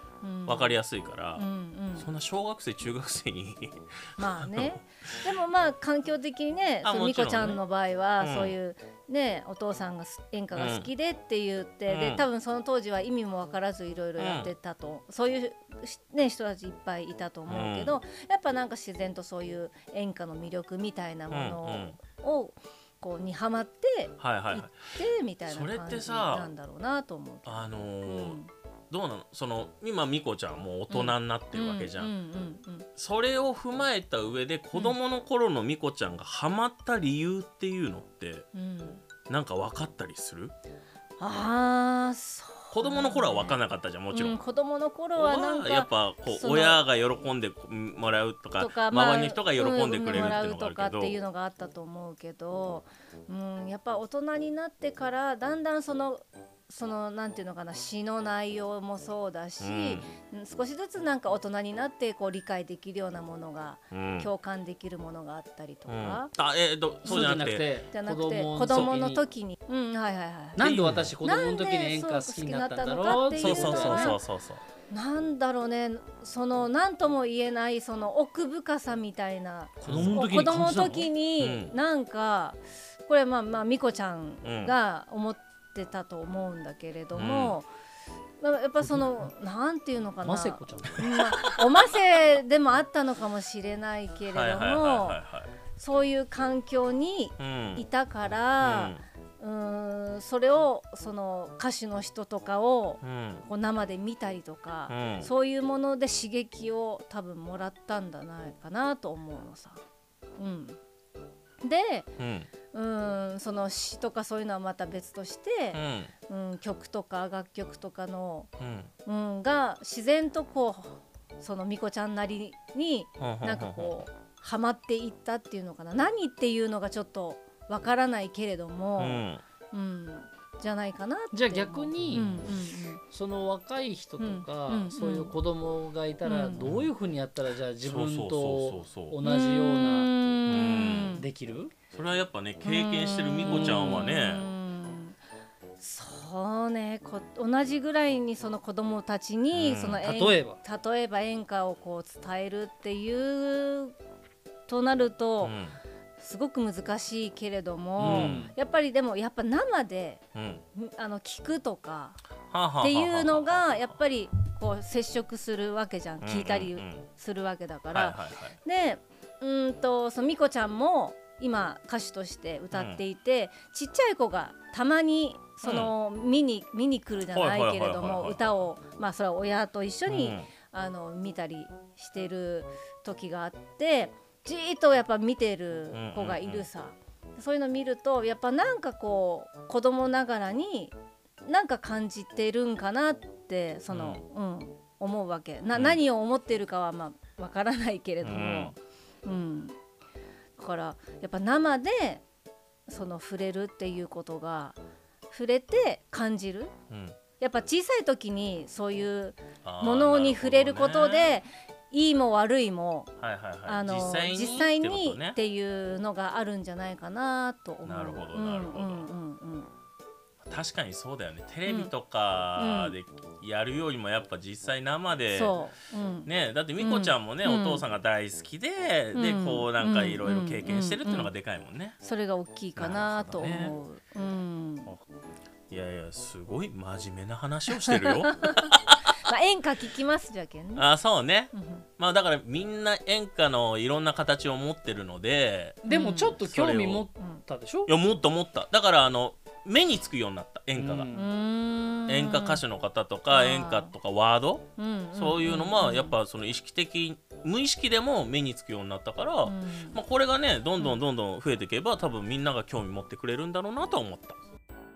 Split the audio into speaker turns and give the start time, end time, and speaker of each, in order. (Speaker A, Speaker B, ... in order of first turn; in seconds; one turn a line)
Speaker A: 0.2-0.8
Speaker B: 0.5-5.3
Speaker A: 1.4-2.1
Speaker A: 4.2-28.5
Speaker B: 6.8-7.6
Speaker B: 8.2-8.5
Speaker B: 10.6-10.9
Speaker B: 11.9-12.3
Speaker B: 14.2-14.5
Speaker B: 17.5-18.0
Speaker B: 21.3-22.0
Speaker B: 24.2-24.8
Speaker B: 25.4-26.5
Speaker B: 27.5-28.4
Speaker B: 28.9-32.1
Speaker A: 30.9-32.9
Speaker B: 33.0-38.5
Speaker A: 38.5-39.0
Speaker B: 39.3-40.5
Speaker A: 41.2-43.6
Speaker B: 42.7-44.4
Speaker A: 44.1-46.8
Speaker B: 45.1-51.2
Speaker A: 48.6-66.3
Speaker B: 59.6-60.1
Speaker B: 63.9-64.3
Speaker B: 65.9-67.7
Speaker A: 67.0-74.2
Speaker C: 67.0-69.2
Speaker C: 70.6-74.2
Speaker B: 70.6-71.1
Speaker B: 73.3-74.6
Speaker A: 74.9-87.7
Speaker C: 79.8-81.1
Speaker B: 79.9-80.8
Speaker B: 81.4-81.7
Speaker B: 84.4-84.8
Speaker B: 87.1-87.6
Speaker A: 88.4-95.2
Speaker C: 88.8-89.1
Speaker C: 90.2-91.1
Speaker B: 94.3-95.5
Speaker A: 95.8-109.8
Speaker B: 97.4-97.8
Speaker B: 98.6-99.0
Speaker B: 103.0-103.5
Speaker B: 104.9-105.3
Speaker A: 110.4-110.8
Speaker A: 111.6-112.1
Speaker B: 112.2-112.5
Speaker A: 112.7-118.5
Speaker B: 115.7-116.1
Speaker B: 118.6-118.9
Speaker A: 119.0-133.0
Speaker B: 123.2-123.9
Speaker B: 129.0-129.4
Speaker C: 131.3-140.1
Speaker A: 134.2-135.4
Speaker A: 136.2-136.6
Speaker B: 137.8-139.2
Speaker A: 139.2-141.2
Speaker B: 140.5-141.2
Speaker C: 141.1-141.7
Speaker B: 141.9-144.5
Speaker A: 142.6-145.2
Speaker C: 143.4-143.9
Speaker A: 145.8-153.9
Speaker B: 149.5-150.0
Speaker C: 150.0-150.6
Speaker A: 154.7-155.6
Speaker B: 155.4-155.8
Speaker A: 156.2-160.2
Speaker C: 158.0-158.5
Speaker B: 158.0-158.4
Speaker B: 160.3-160.6
Speaker A: 160.8-162.2
Speaker B: 162.5-163.9
Speaker A: 162.8-190.9
Speaker B: 166.2-167.1
Speaker B: 167.9-168.6
Speaker B: 172.7-173.0
Speaker B: 175.6-175.9
Speaker B: 177.3-178.5
Speaker B: 180.1-180.5
Speaker B: 185.9-186.7
Speaker A: 191.5-199.8
Speaker B: 193.9-194.2
Speaker B: 195.7-196.0
Speaker B: 198.2-198.8
Speaker A: 200.6-202.2
Speaker A: 202.9-204.8
Speaker A: 205.3-206.7
Speaker B: 206.9-207.2
Speaker A: 207.4-213.1
Speaker B: 209.6-211.3
Speaker B: 213.2-215.4
Speaker A: 213.7-219.7
Speaker B: 217.8-219.1
Speaker B: 220.4-225.6
Speaker A: 221.7-221.9
Speaker A: 222.6-223.0
Speaker A: 225.3-227.8
Speaker B: 226.3-232.0
Speaker A: 229.1-231.3
Speaker A: 232.0-234.9
Speaker B: 232.8-233.8
Speaker B: 235.7-238.9
Speaker A: 238.4-238.7
Speaker A: 239.3-240.9
Speaker B: 240.8-245.8
Speaker A: 241.5-241.8
Speaker C: 245.8-247.9
Speaker A: 245.9-246.4
Speaker B: 246.4-247.1
Speaker B: 247.9-251.1
Speaker C: 250.8-251.3
Speaker A: 251.1-252.6
Speaker B: 252.1-264.4
Speaker A: 253.3-253.9
Speaker A: 254.8-256.2
Speaker A: 259.4-260.0